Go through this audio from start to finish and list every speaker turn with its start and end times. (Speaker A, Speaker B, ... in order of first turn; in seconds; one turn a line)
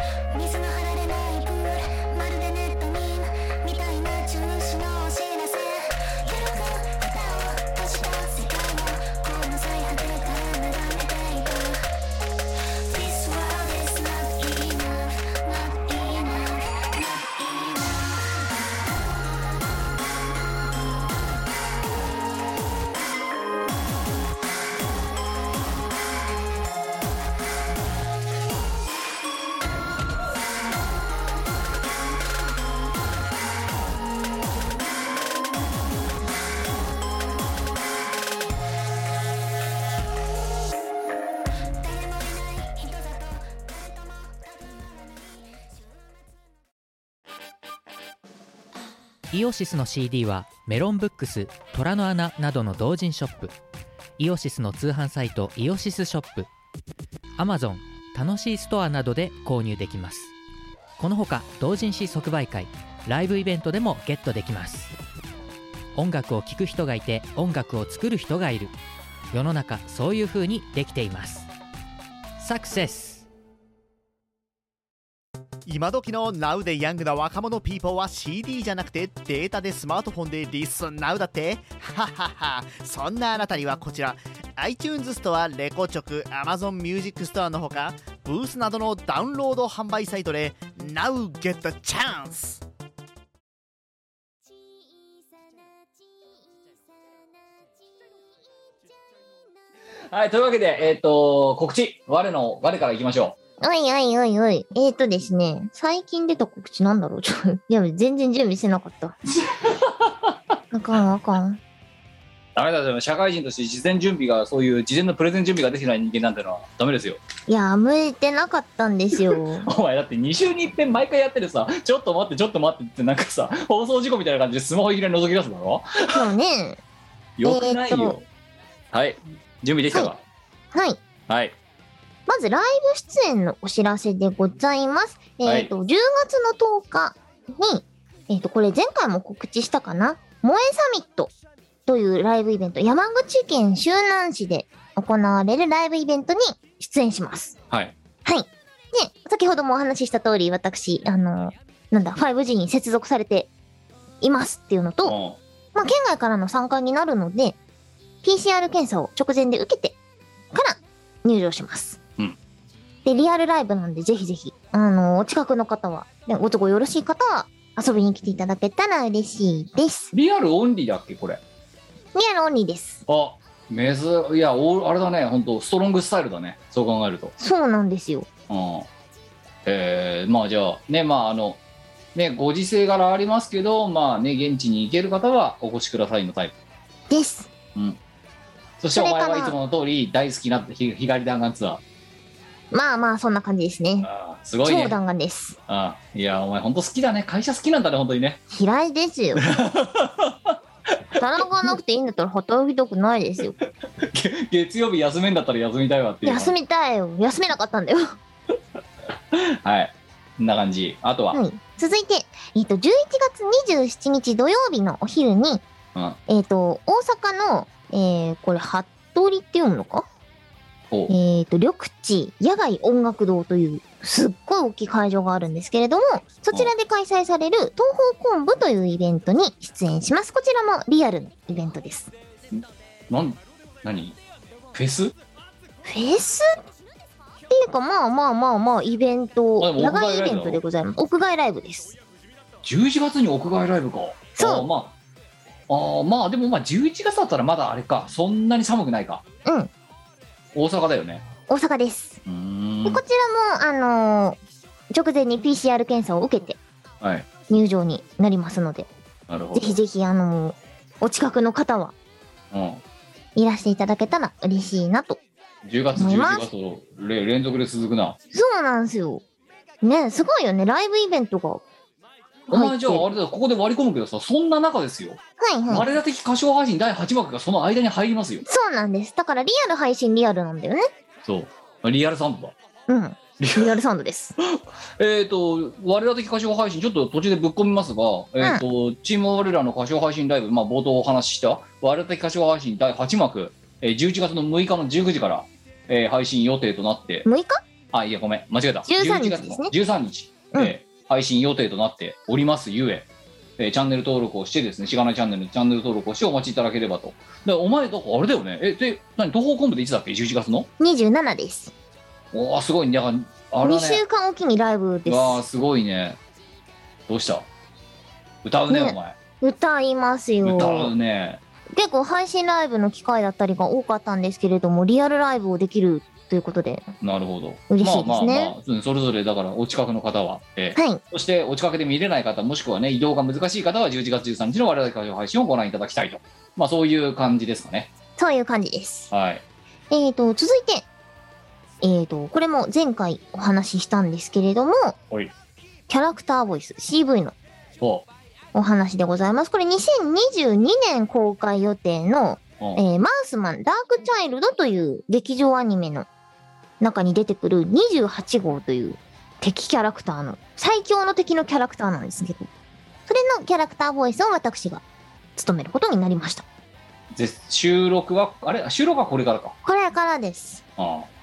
Speaker A: 0.3-11.9
Speaker A: 12.9-18.4
Speaker A: 41.8-45.3
Speaker B: 49.3-53.5
Speaker B: 54.2-56.5
Speaker B: 57.4-60.3
Speaker B: 61.0-65.0
Speaker B: 66.0-68.7
Speaker B: 69.3-71.5
Speaker B: 72.4-73.3
Speaker C: 75.7-92.6
Speaker D: 100.1-103.4
Speaker E: 103.6-109.1
Speaker D: 109.5-110.4
Speaker E: 110.7-111.6
Speaker D: 112.5-117.2
Speaker E: 117.5-119.7
Speaker D: 119.2-126.2
Speaker E: 126.1-126.8
Speaker D: 127.4-128.3
Speaker E: 127.4-128.2
Speaker D: 128.9-130.2
Speaker E: 130.7-131.0
Speaker D: 131.3-131.6
Speaker E: 132.3-141.3
Speaker D: 135.4-135.7
Speaker E: 141.9-147.6
Speaker E: 148.2-153.5
Speaker E: 154.2-155.2
Speaker D: 155.0-155.4
Speaker E: 155.8-157.6
Speaker E: 158.2-160.0
Speaker E: 160.5-162.0
Speaker E: 163.1-170.1
Speaker D: 170.1-171.4
Speaker E: 172.2-173.0
Speaker D: 173.1-177.3
Speaker E: 177.4-178.3
Speaker D: 178.5-178.9
Speaker D: 179.7-181.6
Speaker D: 182.2-186.6
Speaker E: 187.1-187.5
Speaker D: 188.8-191.8
Speaker E: 188.9-189.6
Speaker E: 192.7-194.1
Speaker D: 194.0-195.0
Speaker E: 194.6-195.6
Speaker D: 195.7-198.4
Speaker E: 198.5-199.5
Speaker D: 199.4-200.6
Speaker D: 201.2-201.7
Speaker E: 201.2-203.6
Speaker D: 203.6-206.5
Speaker E: 206.2-208.1
Speaker D: 209.3-211.4
Speaker E: 211.3-215.6
Speaker E: 216.3-220.1
Speaker E: 221.1-232.1
Speaker D: 232.5-234.2
Speaker D: 234.7-235.2
Speaker E: 235.8-236.5
Speaker E: 237.5-242.0
Speaker D: 239.6-240.6
Speaker D: 242.6-244.9
Speaker E: 244.4-244.7
Speaker D: 245.7-249.2
Speaker E: 249.4-249.7
Speaker D: 250.6-251.2
Speaker E: 251.5-252.2
Speaker D: 252.3-253.0
Speaker E: 252.8-254.4
Speaker E: 254.9-256.6
Speaker D: 257.0-257.3
Speaker E: 257.5-258.9
Speaker D: 259.3-259.8
Speaker E: 259.6-261.9
Speaker D: 262.5-262.8
Speaker E: 263.4-265.2
Speaker D: 265.6-268.2
Speaker E: 266.0-266.5
Speaker E: 268.3-269.2
Speaker E: 269.8-271.6
Speaker E: 272.5-273.1
Speaker D: 272.5-278.4
Speaker E: 275.4-275.9
Speaker E: 278.4-280.9
Speaker D: 281.2-282.5
Speaker E: 282.9-284.4
Speaker D: 283.4-283.7
Speaker D: 284.4-297.3
Speaker E: 297.2-297.6
Speaker D: 297.9-310.7
Speaker E: 298.9-299.7
Speaker E: 310.8-311.7
Speaker D: 312.3-314.0
Speaker E: 313.6-315.4
Speaker D: 315.1-316.2
Speaker D: 317.1-317.5
Speaker D: 318.4-319.2
Speaker E: 318.7-320.9
Speaker D: 320.4-321.4
Speaker E: 321.7-326.9
Speaker D: 327.0-337.9
Speaker E: 327.7-328.6
Speaker E: 330.8-331.0
Speaker E: 338.2-339.1
Speaker D: 339.1-339.4
Speaker E: 339.9-340.9
Speaker E: 341.8-344.9
Speaker E: 345.9-347.4
Speaker D: 347.8-348.1
Speaker E: 348.5-356.1
Speaker E: 356.8-362.5
Speaker E: 363.1-364.8
Speaker E: 365.4-366.5
Speaker D: 367.1-369.6
Speaker E: 369.6-370.6
Speaker D: 370.8-371.1